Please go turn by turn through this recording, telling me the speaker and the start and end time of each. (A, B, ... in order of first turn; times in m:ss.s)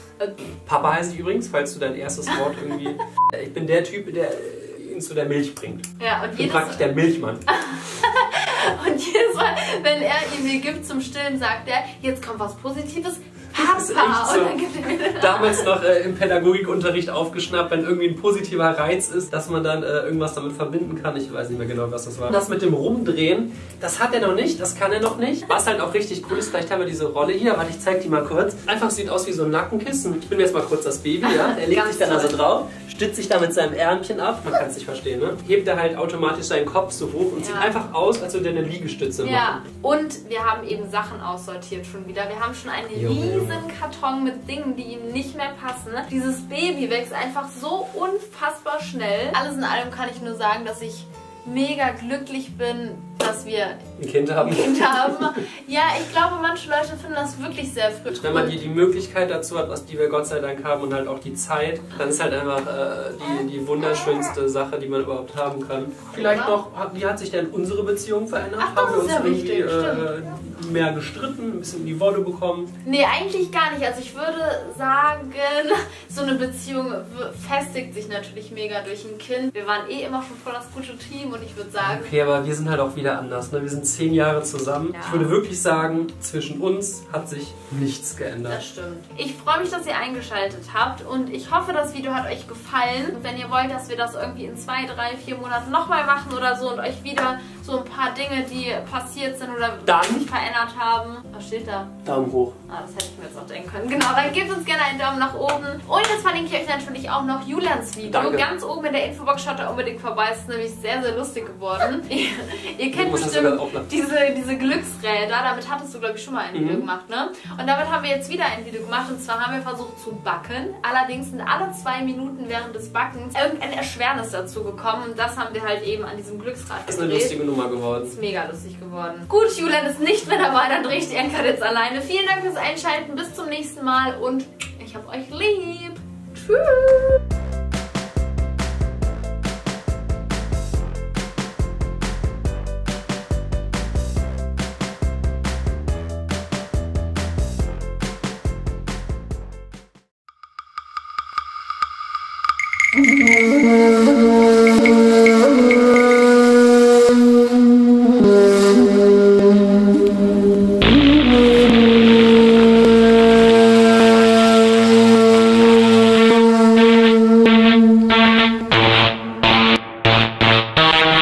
0:00.7-0:05.8 A
0:02.3-0:03.0 B
0:06.0-0:06.9 B
0:06.4-0:07.4 A
0:07.5-0:15.7 B
0:13.5-0:39.6 A
0:31.2-0:32.4 B
0:37.4-0:37.8 B
0:39.2-0:53.8 B
0:42.9-0:43.7 A
0:54.0-0:55.4 A
0:54.4-0:58.6 B
0:58.1-1:12.7 A
1:06.1-1:06.6 B
1:08.6-1:10.1 B
1:12.8-1:22.1 B
1:21.8-1:28.6 A
1:24.9-1:25.4 B
1:28.5-1:42.0 B
1:39.8-1:40.3 A
1:42.0-1:42.6 A
1:42.7-2:07.4 B
1:48.0-1:48.5 A
1:52.9-1:53.9 A
1:56.5-1:56.9 A
2:06.9-2:08.2 A
2:08.0-2:17.2 B